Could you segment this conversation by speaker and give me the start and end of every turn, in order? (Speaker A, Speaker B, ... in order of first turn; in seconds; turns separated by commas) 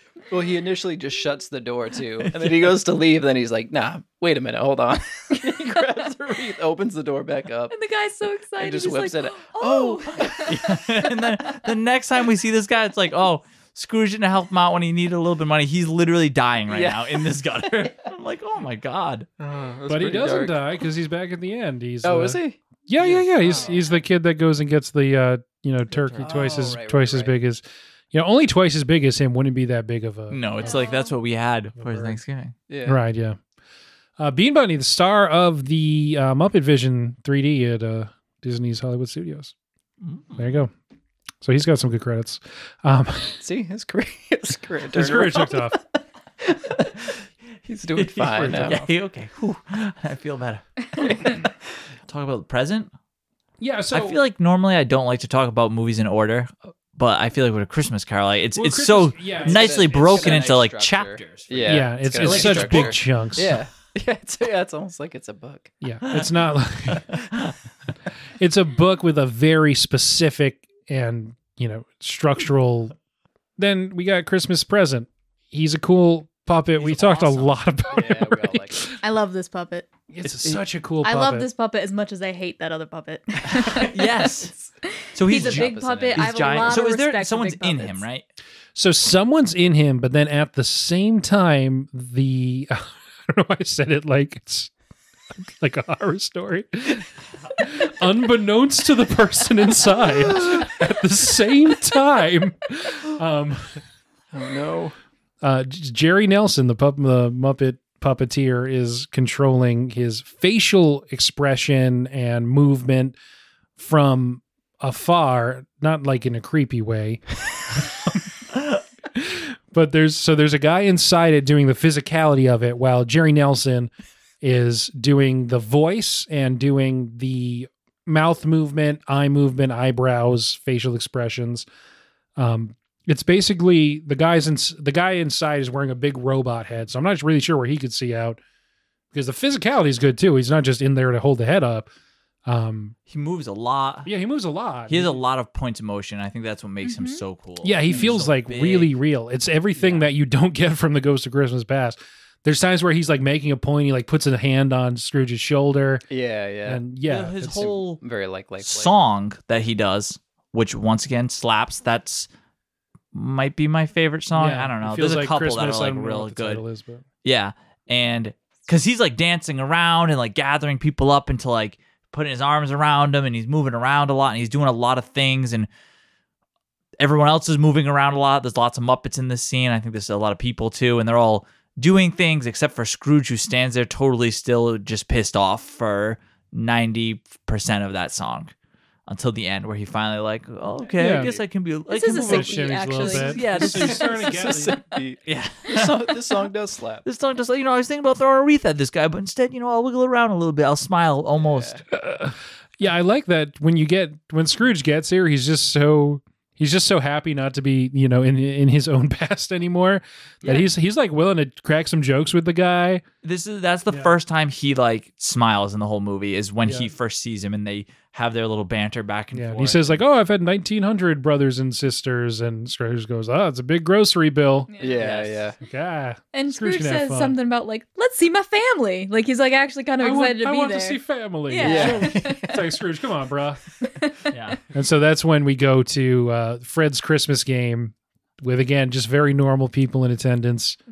Speaker A: 0.3-7.7, Speaker B: 2.2-2.7, Speaker C: 7.7-10.8, Speaker A: 8.6-10.7, Speaker B: 10.5-19.3, Speaker A: 16.7-17.6, Speaker A: 19.4-20.6, Speaker D: 19.9-30.4, Speaker A: 22.0-22.6, Speaker B: 23.0-23.2, Speaker A: 23.4-23.8, Speaker A: 26.1-27.3, Speaker B: 30.3-32.5, Speaker C: 30.6-31.1, Speaker D: 31.8-32.2, Speaker A: 32.7-33.0, Speaker D: 32.9-33.4, Speaker D: 34.2-39.5, Speaker B: 40.0-40.5, Speaker D: 40.4-40.7, Speaker D: 41.4-43.4, Speaker A: 43.4-45.8, Speaker D: 44.9-45.8, Speaker A: 46.4-48.8, Speaker B: 48.0-51.1, Speaker D: 48.3-48.9, Speaker A: 51.0-51.5, Speaker B: 52.1-52.9, Speaker D: 53.6-54.2, Speaker B: 53.9-63.0, Speaker D: 58.6-60.5, Speaker A: 59.4-65.7, Speaker D: 61.6-63.6, Speaker D: 65.8-67.1, Speaker B: 66.9-67.5, Speaker D: 68.4-72.9, Speaker D: 73.6-79.0, Speaker B: 76.8-77.6, Speaker A: 78.0-78.9, Speaker C: 79.0-79.9, Speaker D: 80.1-81.5, Speaker B: 80.2-80.6, Speaker C: 81.0-84.3, Speaker B: 83.5-84.5, Speaker B: 85.1-88.3, Speaker C: 85.2-88.0, Speaker A: 85.3-86.8, Speaker D: 88.8-94.7, Speaker D: 95.5-103.8, Speaker A: 104.3-105.0, Speaker D: 105.4-113.2, Speaker D: 113.8-117.2, Speaker D: 119.1-131.7, Speaker D: 132.4-138.4, Speaker D: 139.1-141.9, Speaker D: 142.5-142.9, Speaker B: 143.1-144.1, Speaker D: 144.1-145.2, Speaker B: 144.9-148.9, Speaker C: 146.8-147.2, Speaker D: 147.6-156.0, Speaker B: 149.8-150.1, Speaker A: 156.1-156.8, Speaker D: 156.7-157.7, Speaker B: 157.1-158.0, Speaker A: 157.5-158.9, Speaker B: 158.6-162.3, Speaker B: 163.1-166.6, Speaker D: 164.4-167.1, Speaker B: 167.2-175.7, Speaker B: 177.0-188.5, Speaker B: 189.1-194.4, Speaker A: 191.0-191.4, Speaker D: 191.0-191.4, Speaker C: 191.9-194.0, Speaker D: 192.1-194.8, Speaker A: 193.6-197.0, Speaker B: 195.3-196.2, Speaker B: 197.1-201.8, Speaker A: 201.4-201.8, Speaker D: 201.9-213.0, Speaker B: 213.2-220.0, Speaker D: 216.6-216.9, Speaker D: 219.3-224.7, Speaker C: 224.7-225.0, Speaker A: 224.8-225.6, Speaker B: 225.0-225.4, Speaker D: 225.6-227.4, Speaker C: 226.3-232.6, Speaker D: 230.0-233.6, Speaker A: 231.6-232.6, Speaker C: 233.8-234.3, Speaker B: 234.3-234.6, Speaker D: 234.7-240.8